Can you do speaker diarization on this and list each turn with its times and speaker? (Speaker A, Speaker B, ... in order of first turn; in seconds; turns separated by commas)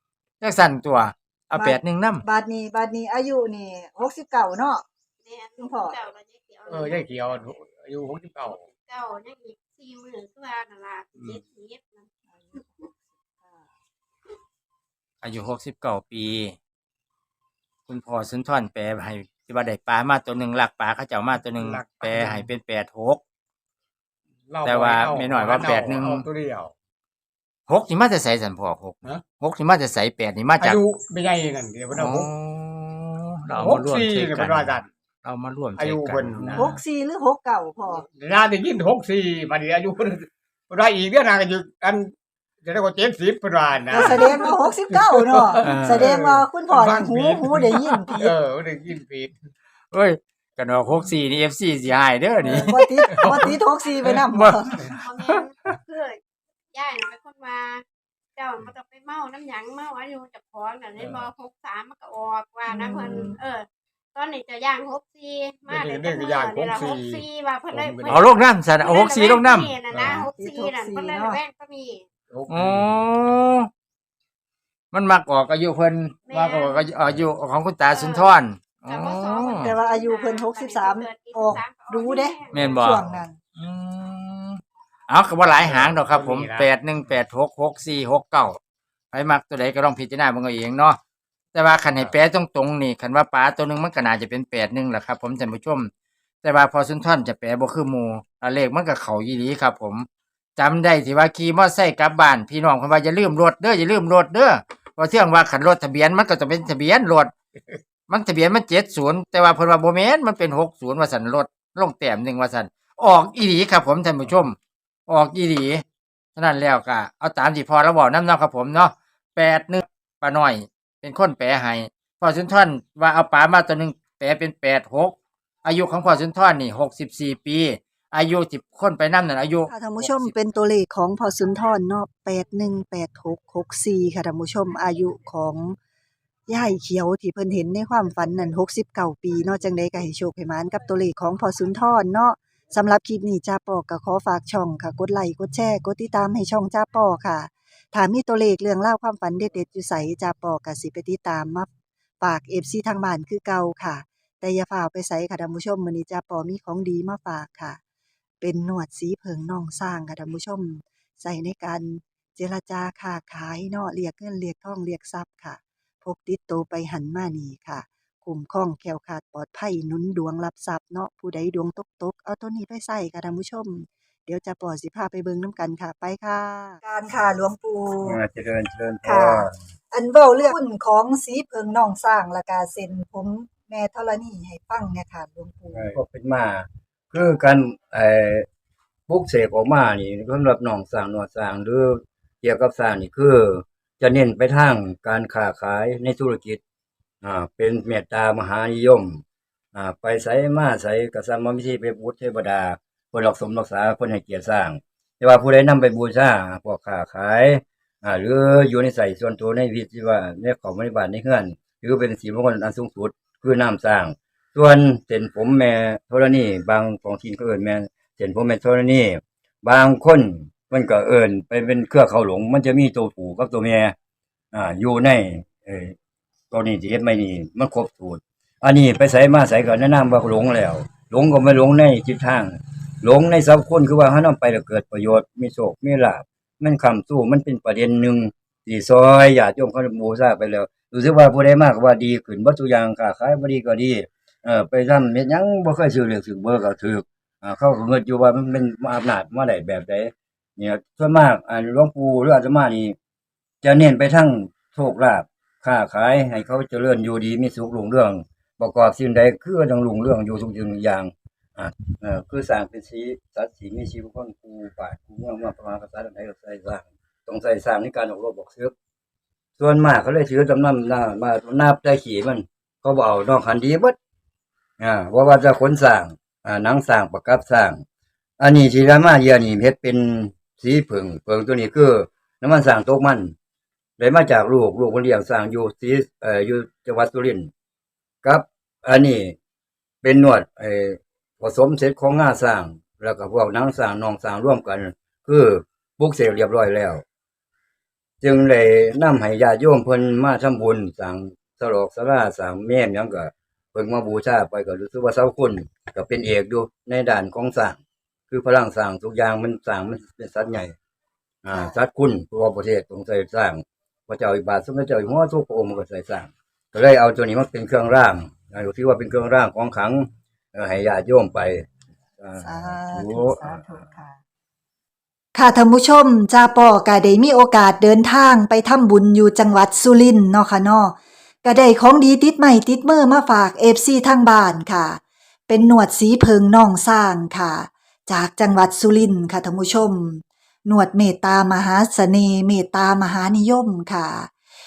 Speaker A: 0.4-2.2, Speaker B: 1.5-4.8, Speaker C: 5.2-7.5, Speaker B: 5.6-6.0, Speaker D: 6.7-8.7, Speaker C: 8.4-12.1, Speaker A: 15.2-16.6, Speaker A: 17.9-23.2, Speaker D: 21.5-22.5, Speaker D: 24.5-26.7, Speaker A: 24.6-26.3, Speaker A: 27.7-30.8, Speaker D: 30.6-32.3, Speaker A: 31.9-36.8, Speaker D: 33.5-34.9, Speaker D: 35.8-36.7, Speaker B: 36.6-38.0, Speaker D: 38.0-42.1, Speaker D: 42.6-49.3, Speaker B: 43.9-48.3, Speaker A: 45.6-46.1, Speaker A: 49.9-53.5, Speaker D: 52.4-53.4, Speaker B: 52.5-54.7, Speaker A: 54.2-55.7, Speaker C: 55.0-56.2, Speaker C: 56.7-57.8, Speaker C: 58.4-72.1, Speaker D: 61.0-61.3, Speaker B: 62.7-63.4, Speaker D: 65.7-68.2, Speaker A: 68.1-69.7, Speaker D: 69.9-70.3, Speaker B: 70.3-71.4, Speaker D: 72.3-72.9, Speaker A: 72.5-73.7, Speaker A: 74.9-79.7, Speaker C: 76.3-76.9, Speaker C: 77.9-78.4, Speaker C: 78.9-82.7, Speaker B: 79.5-83.4, Speaker A: 82.5-83.0, Speaker A: 83.5-88.6, Speaker D: 85.6-86.7, Speaker A: 89.1-91.0, Speaker A: 91.5-95.9, Speaker A: 96.4-107.3, Speaker A: 108.1-115.8, Speaker A: 116.4-130.3, Speaker B: 129.7-135.8, Speaker B: 136.5-151.7, Speaker B: 152.2-157.8, Speaker B: 158.4-178.2, Speaker E: 178.0-179.5, Speaker B: 179.1-185.9, Speaker E: 185.7-188.5, Speaker E: 189.1-196.6, Speaker E: 197.2-199.2, Speaker E: 199.7-223.9, Speaker E: 224.5-225.9, Speaker E: 226.5-253.0, Speaker E: 253.6-268.7, Speaker E: 269.6-274.0, Speaker E: 274.8-277.8, Speaker E: 278.4-283.4, Speaker E: 284.0-287.5, Speaker E: 288.2-289.4, Speaker E: 290.0-297.0, Speaker E: 298.2-307.8, Speaker E: 308.3-310.8, Speaker E: 311.4-321.7, Speaker E: 322.2-323.6, Speaker B: 322.4-324.2, Speaker B: 325.4-344.3